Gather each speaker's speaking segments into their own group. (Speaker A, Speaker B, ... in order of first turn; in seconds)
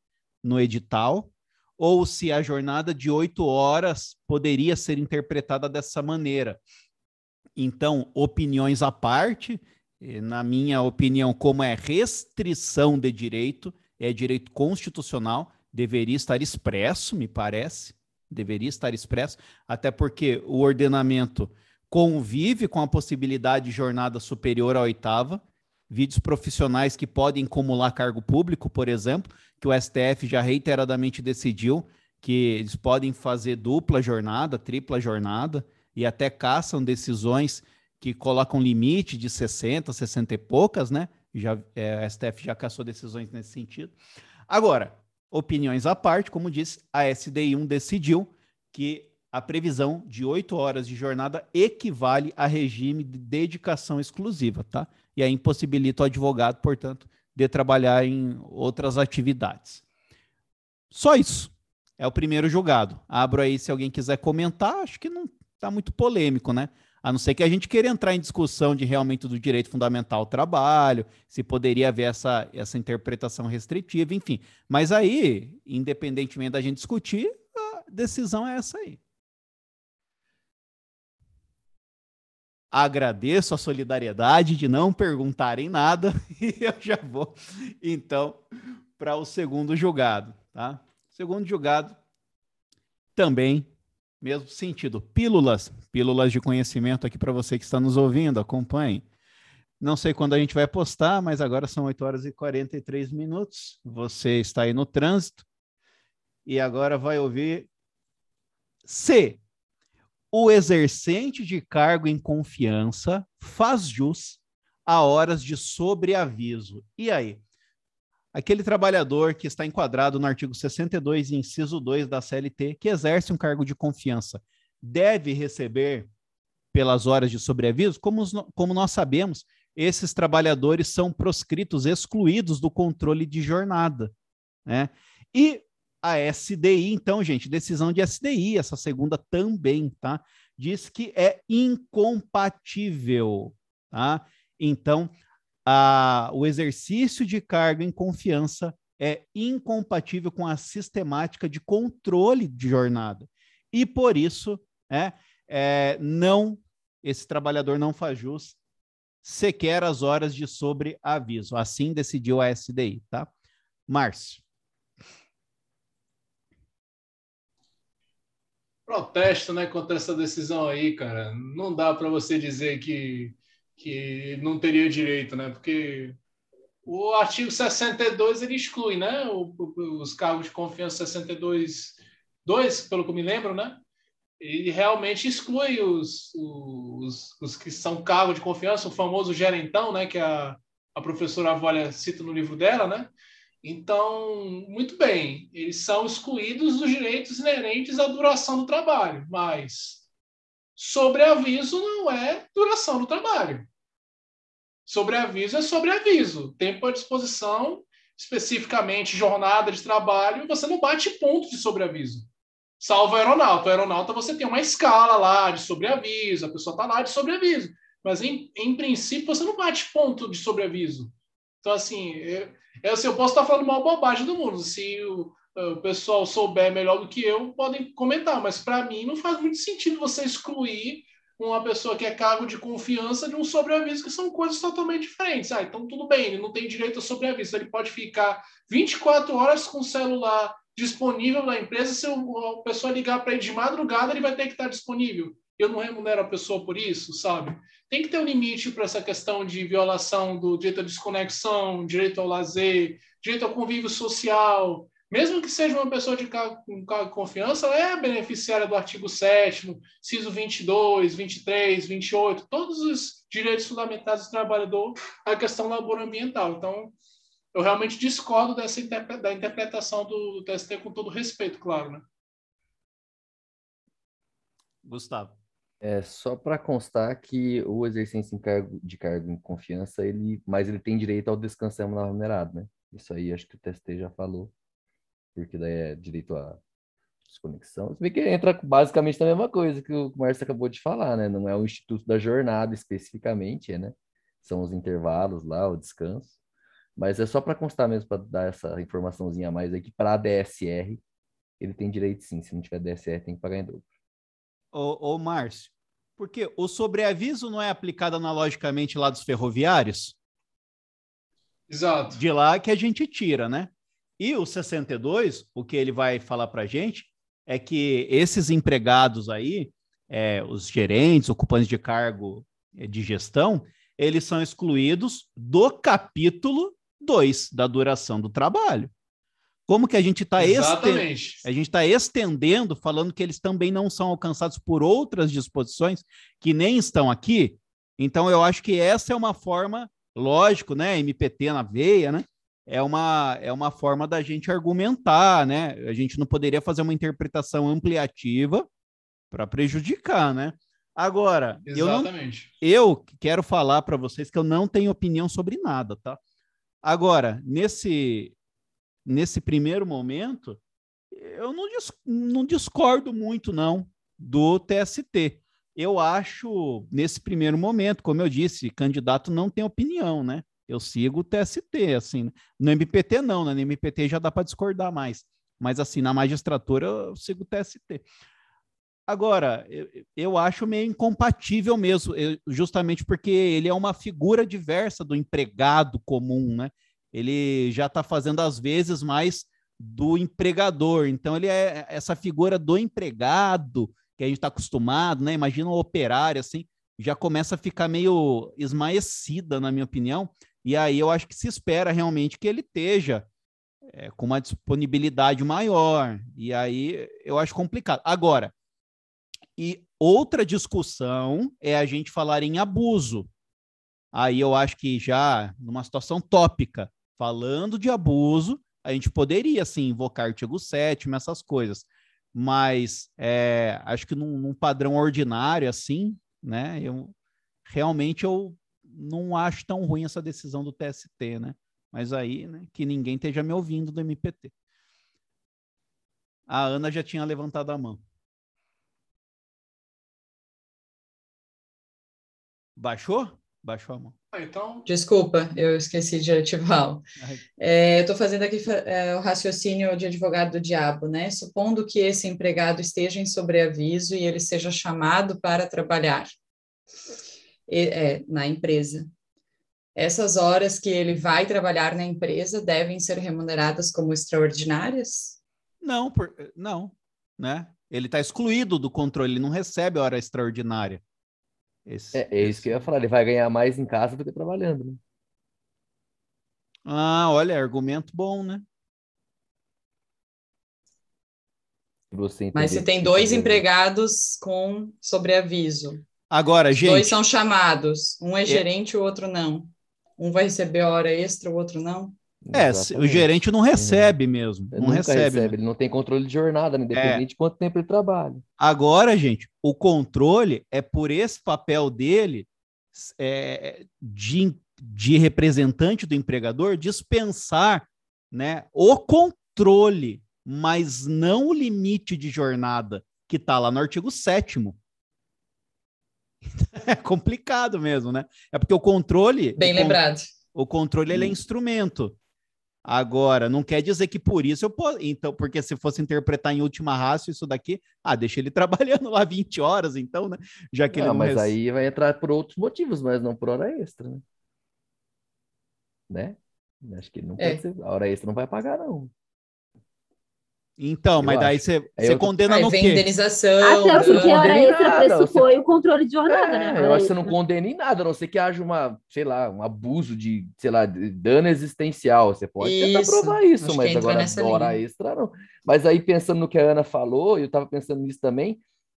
Speaker A: 0.4-6.6, 7.6-43.9, 44.5-59.8, 60.9-79.0, 82.7-88.4, 89.0-92.0, 93.2-93.7, 94.2-99.0, 99.8-105.4, 106.5-107.7, 108.8-109.4, 110.3-117.4, 118.3-126.1, 126.7-134.1, 134.7-145.1, 145.7-158.6, 159.2-163.3, 163.9-164.4, 274.8-275.3, 304.7-310.1, 312.1-328.9, 329.7-348.6, 349.3-356.2, 356.8-358.3, 359.1-360.6, 361.1-378.0, 379.1-403.2, 403.9-408.5, 409.6-413.3, 414.1-427.1, 427.6-434.5, 436.5-438.0, 442.8-444.1, 465.8-471.0, 471.9-472.8, 476.9-478.6, 486.3-487.2, 492.5-495.5, 496.9-497.2, 498.6-514.8, 516.6-520.0, 520.5-522.2, 522.8-531.6, 540.8-543.1
Speaker B: 168.9-176.2, 176.8-183.8, 184.4-193.1, 193.6-200.0, 200.8-203.7, 204.8-212.3, 212.8-221.1, 221.6-266.9, 267.5-272.0, 311.7-312.2, 330.4-331.4, 351.7-352.5, 444.3-444.9
Speaker C: 275.8-284.5, 285.3-286.6, 287.3-296.3, 297.0-301.0, 301.6-303.8, 472.1-475.0, 482.1-483.6, 492.4-494.1, 494.7-498.4, 521.1-521.4, 530.9-534.2, 536.1-539.1, 541.2-542.3, 543.9-545.5, 546.3-558.6
Speaker D: 444.9-447.0, 447.6-456.3, 457.7-459.1, 459.9-465.4, 482.5-486.0, 486.7-492.1, 519.6-520.3, 542.4-544.5, 552.6-554.8
Speaker E: 543.6-547.3